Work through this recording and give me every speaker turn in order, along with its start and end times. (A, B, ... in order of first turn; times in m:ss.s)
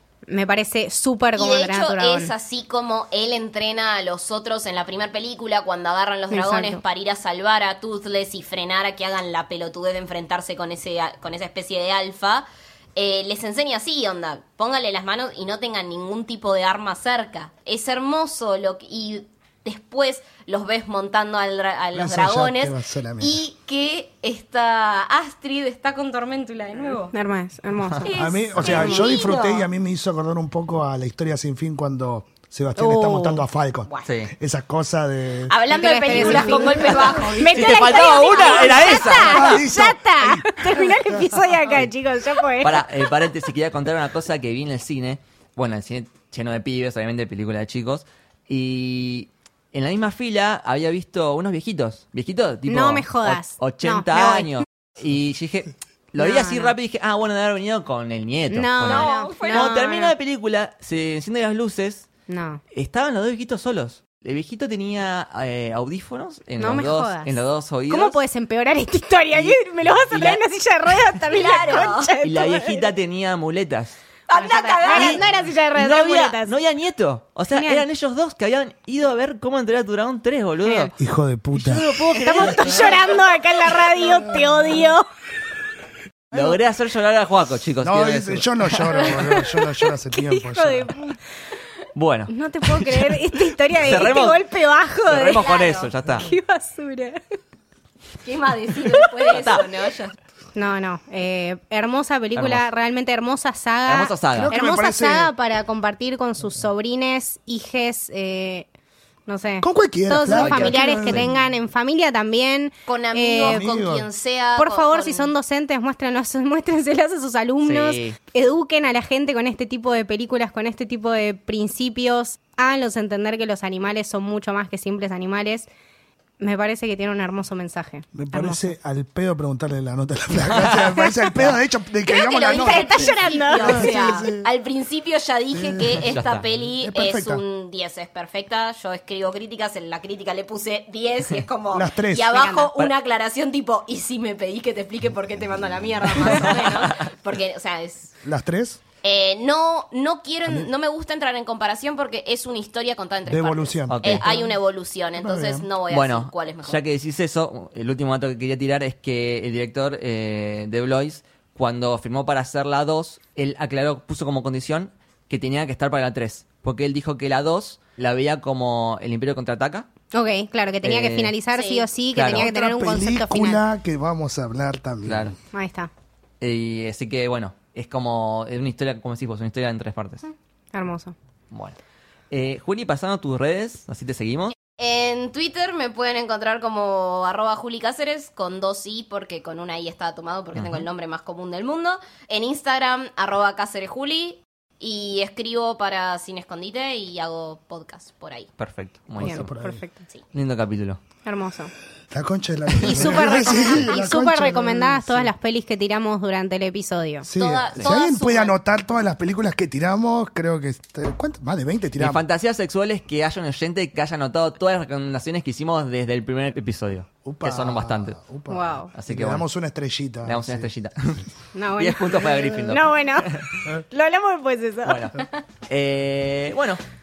0:00.3-0:02.3 A
0:01.4-0:27.1 B
0:06.3-0:06.8 A
0:21.9-0:23.4 C
0:27.1-0:29.1 A
0:28.0-0:29.7 B
0:28.2-0:35.6 C
0:32.8-0:33.4 A
0:34.1-0:34.3 D
0:35.5-0:39.3 B
0:35.7-0:43.3 A
0:36.1-0:37.1 C
0:36.2-0:39.6 D
0:39.2-0:41.6 C
0:42.6-1:02.1 D
0:52.7-0:54.6 A
0:56.2-0:56.7 A
0:58.5-1:00.1 A
0:58.9-0:59.7 B
1:02.3-1:02.6 A
1:02.7-1:08.2 D
1:06.6-1:07.4 A
1:07.9-1:12.9 A
1:09.3-1:14.0 D
1:11.3-1:12.1 B
1:14.3-1:15.2 B
1:14.3-1:16.5 A
1:14.9-1:15.2 D
1:15.8-1:20.9 D
1:17.5-1:17.9 A
1:20.6-1:20.9 A
1:21.0-1:21.9 C
1:21.5-1:23.2 D
1:22.1-1:25.1 A
1:26.3-1:29.1 D
1:27.8-1:31.0 C
1:29.1-1:31.2 A
1:32.0-1:33.2 D
1:32.3-1:37.2 A
1:33.7-1:34.4 D
1:35.0-1:36.3 D
1:35.4-1:35.6 B
1:38.2-1:40.2 B
1:39.3-1:39.6 D
1:40.6-1:48.7 A
1:42.4-1:42.6 D
1:43.9-1:44.5 D
1:44.3-1:45.3 C
1:49.3-1:53.7 A
1:49.6-1:51.4 C
1:50.3-1:51.3 D
1:52.9-1:55.3 B
1:53.4-1:54.1 C
1:54.6-2:05.7 A
1:57.6-1:58.2 D
2:06.4-2:08.6 A
2:08.1-2:14.5 C
2:10.5-2:10.8 D
2:12.1-2:28.1 B
2:12.5-2:14.2 A
2:15.5-2:16.1 C
2:16.0-2:16.6 D
2:16.8-2:17.4 C
2:21.7-2:22.4 C
2:22.4-2:22.7 A
2:26.2-2:26.8 D
2:28.2-2:28.8 C
2:29.0-2:36.8 B
2:33.3-2:34.3 C
2:33.9-2:34.4 D
2:35.2-2:35.7 C
2:35.9-2:49.9 D
2:50.1-2:53.6 A
2:50.8-2:51.3 D
2:51.5-2:51.9 B
2:52.1-2:52.5 D
2:52.3-2:55.4 C
2:55.0-2:55.4 D
2:55.5-2:55.9 A
2:56.4-3:00.2 D
3:00.3-3:01.2 A
3:01.5-3:01.8 D
3:02.3-3:04.6 D
3:04.7-3:18.5 B
3:10.6-3:10.9 D
3:18.6-3:19.5 D
3:19.2-3:20.0 A
3:19.2-3:19.8 C
3:20.3-3:21.0 D
3:21.2-3:21.7 A
3:22.1-3:25.3 C
3:22.8-3:23.3 D
3:22.8-3:27.3 A
3:23.5-3:23.9 B
3:27.2-3:32.2 C
3:27.4-3:28.6 B
3:32.0-3:38.2 D
3:37.2-3:40.7 C
3:38.5-3:38.9 A
3:39.0-3:39.4 D
3:40.2-3:41.2 D
3:41.5-3:43.4 A
3:41.8-3:43.5 D
3:43.9-3:45.3 A
3:44.8-3:45.2 D
3:45.7-3:46.8 D